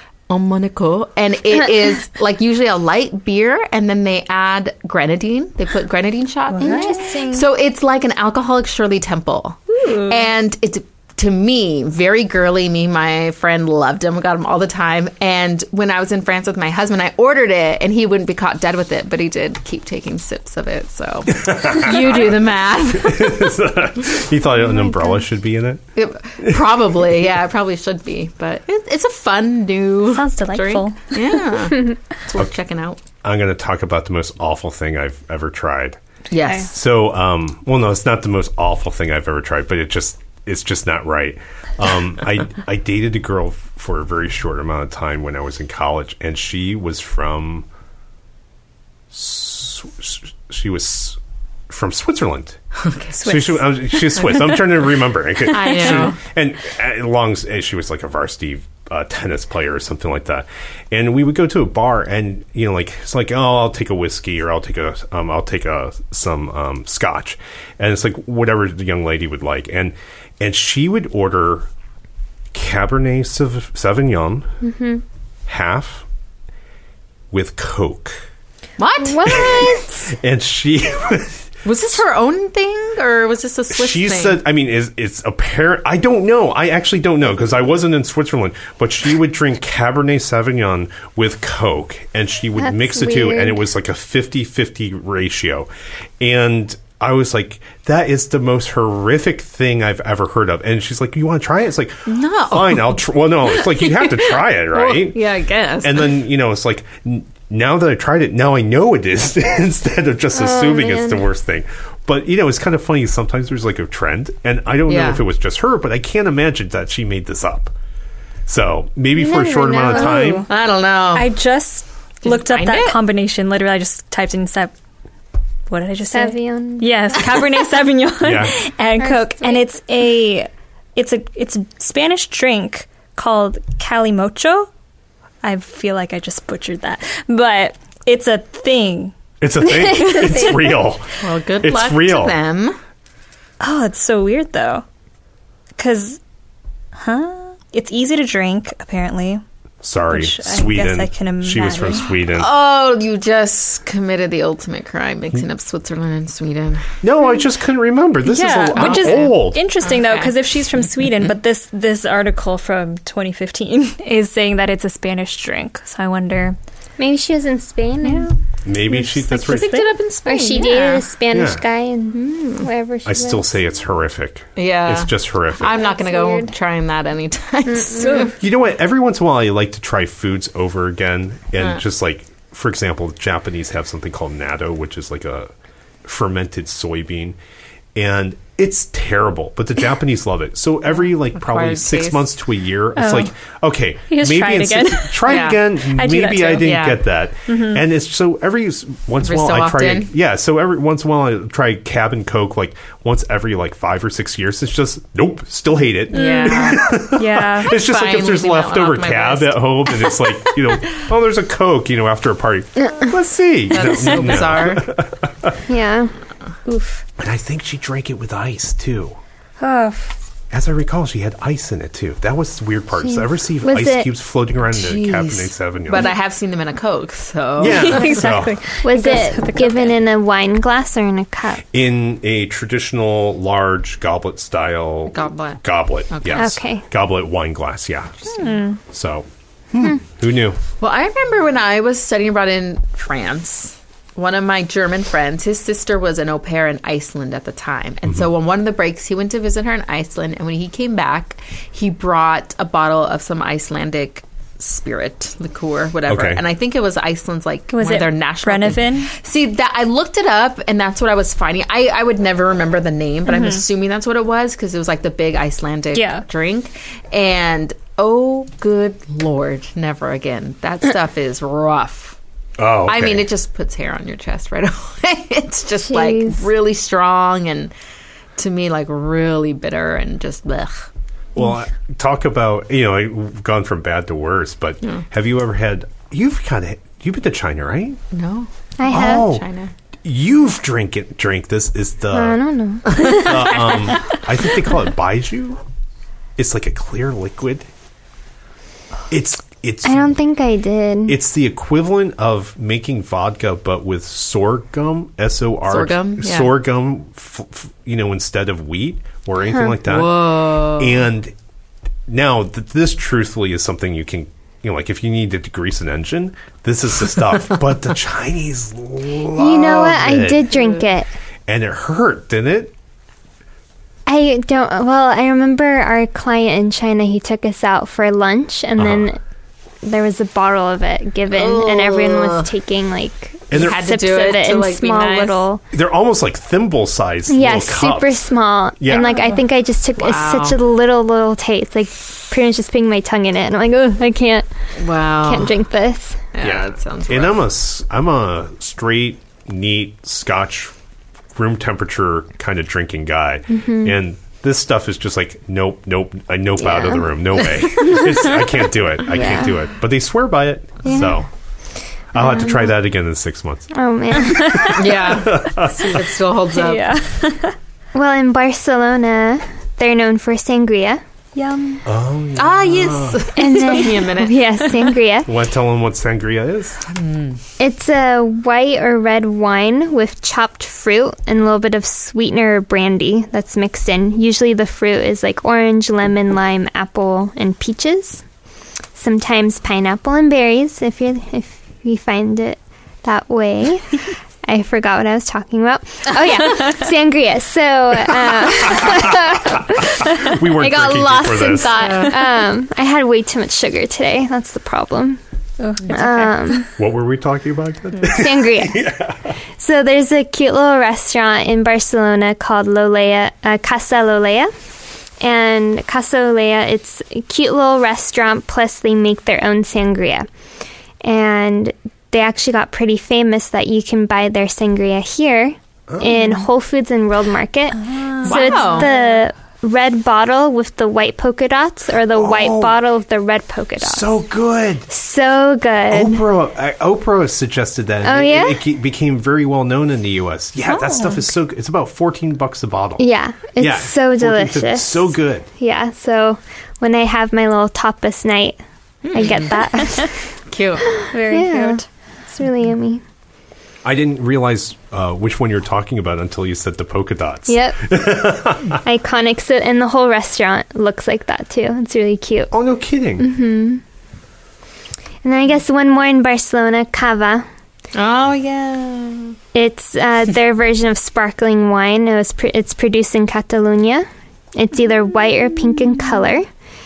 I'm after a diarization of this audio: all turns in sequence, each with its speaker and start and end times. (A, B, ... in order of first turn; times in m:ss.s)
0:00.3-0:23.5 A
0:06.5-0:07.0 B
0:06.6-0:07.5 C
0:09.8-0:10.2 B
0:21.3-0:22.4 D
0:22.9-0:25.8 D
0:26.0-0:33.0 A
0:30.1-0:31.3 B
0:33.2-0:36.0 D
0:36.3-0:36.7 A
0:36.6-0:47.6 D
0:49.1-0:51.2 D
0:51.7-0:52.6 D
0:52.8-0:53.6 A
0:53.2-1:11.7 D
0:55.5-0:56.2 A
1:12.5-1:14.5 D
1:14.6-1:15.0 C
1:15.5-1:16.0 D
1:17.3-1:18.2 D
1:18.8-1:19.8 A
1:19.0-1:20.1 C
1:20.1-1:21.5 D
1:21.6-1:24.4 A
1:23.7-1:35.7 D
1:32.6-1:33.6 C
1:36.2-1:45.2 D
1:42.1-1:43.0 A
1:43.6-1:46.1 A
1:45.8-1:57.7 D
1:50.3-1:51.2 C
1:54.9-1:55.2 A
1:58.5-2:00.5 D
1:59.1-2:00.2 C
1:59.9-2:00.5 B
2:00.4-2:01.3 A
2:01.1-2:04.7 B
2:02.2-2:03.0 A
2:05.7-2:14.7 B
2:06.1-2:07.3 C
2:08.2-2:08.6 D
2:09.0-2:09.6 C
2:15.4-2:20.7 B
2:19.4-2:22.4 D
2:21.2-2:22.8 A
2:23.6-2:24.8 B
2:25.8-2:26.2 B
2:27.0-2:29.4 B
2:29.8-2:32.5 D
2:30.1-2:32.1 B
2:32.3-2:36.9 A
2:37.0-2:39.6 D
2:38.2-2:46.6 B
2:38.7-2:40.3 A
2:47.0-2:48.3 C
2:48.0-2:48.3 B
2:48.6-2:49.8 D
2:48.9-2:49.9 B
2:49.3-2:51.0 A
2:50.2-2:53.5 C
2:51.3-2:51.6 D
2:52.1-2:52.7 A
2:53.0-2:55.8 D
2:54.6-2:58.3 A
2:55.6-2:56.5 C
2:57.7-2:58.3 C
2:58.0-2:58.3 B
2:58.4-3:05.5 D
3:06.0-3:07.4 D
3:07.9-3:35.6 D
3:11.3-3:12.3 A
3:13.0-3:13.3 B
3:14.1-3:16.7 B
3:15.3-3:15.6 A
3:16.6-3:17.0 A
3:17.5-3:17.8 B
3:19.2-3:20.1 A
3:26.1-3:27.0 A
3:26.1-3:27.8 B
3:27.6-3:30.1 A
3:32.8-3:33.1 C
3:33.7-3:34.9 A
3:35.6-3:36.1 C
3:36.7-3:37.0 B
3:37.2-3:39.2 D
3:39.6-3:40.1 B
3:40.5-3:46.1 D
3:43.0-3:44.1 C
3:44.7-3:48.2 A
3:47.6-3:48.5 D
3:47.7-3:50.0 B
3:48.8-3:51.6 C
3:51.7-3:58.3 D
3:55.1-3:56.5 A
3:56.3-3:56.8 C
3:58.3-3:58.8 B
3:58.9-4:00.6 D
4:00.8-4:32.2 A
4:16.1-4:16.4 D
4:17.7-4:19.1 B
4:23.3-4:23.6 B
4:25.9-4:26.2 B
4:32.6-4:33.3 D
4:32.8-4:37.7 A
4:35.8-4:36.5 C
4:38.4-4:40.9 A
4:41.3-4:48.0 D
4:48.1-4:49.7 A
4:48.8-4:49.2 C
4:48.9-4:49.4 D
4:50.0-4:55.6 D
4:52.1-4:53.7 C
4:56.4-4:57.7 D
4:59.1-5:00.1 D
4:59.8-5:01.2 C
5:01.1-5:11.3 D
5:05.7-5:06.5 A
5:09.8-5:11.0 A
5:12.1-5:20.4 D
5:19.4-5:21.1 C
5:21.5-5:22.7 D
5:24.1-5:29.2 C
5:28.8-5:29.1 D
5:29.8-5:35.6 C
5:31.3-5:32.5 A
5:33.5-5:33.8 D
5:33.5-5:35.4 A
5:35.7-5:39.2 D
5:37.3-5:44.5 C
5:40.0-5:40.6 A
5:44.8-5:45.5 A
5:45.1-5:46.2 C
5:46.3-5:47.5 A
5:46.4-5:50.7 D
5:51.3-6:01.3 D
5:53.5-5:54.0 C
5:56.6-5:57.0 C
5:59.1-5:59.6 C
6:00.8-6:01.2 C
6:02.1-6:06.0 D
6:02.2-6:02.6 C
6:03.7-6:04.8 C
6:04.2-6:04.8 B
6:04.7-6:06.8 A
6:06.5-6:07.6 B
6:07.9-6:11.0 C
6:11.3-6:11.8 B
6:11.8-6:13.3 D
6:12.4-6:14.4 A
6:13.4-6:15.3 C
6:15.2-6:16.8 D
6:16.8-6:17.4 A
6:17.6-6:28.2 C
6:28.9-6:45.2 C
6:39.1-6:42.0 D
6:41.7-6:42.2 A
6:45.6-6:46.6 B
6:45.9-6:46.7 C
6:46.8-6:49.4 D
6:48.0-6:48.8 C
6:49.6-6:54.5 C
6:55.2-7:00.3 C
7:01.0-7:14.2 C
7:06.1-7:06.4 B
7:07.8-7:09.0 B
7:08.2-7:09.0 A
7:12.1-7:12.7 D
7:13.8-7:14.9 D
7:14.9-7:16.2 C
7:15.9-7:23.0 D
7:18.0-7:18.6 C
7:20.7-7:21.2 B
7:23.0-7:28.6 C
7:23.6-7:25.4 D
7:29.0-7:31.0 A
7:29.1-7:30.1 C
7:31.0-7:33.0 C
7:31.1-7:31.8 B
7:33.8-7:38.8 D
7:37.5-7:38.0 C
7:38.8-7:42.5 C
7:42.5-7:43.3 D
7:43.2-7:43.8 C
7:45.2-7:47.5 C
7:47.9-7:49.4 A
7:49.5-7:56.5 C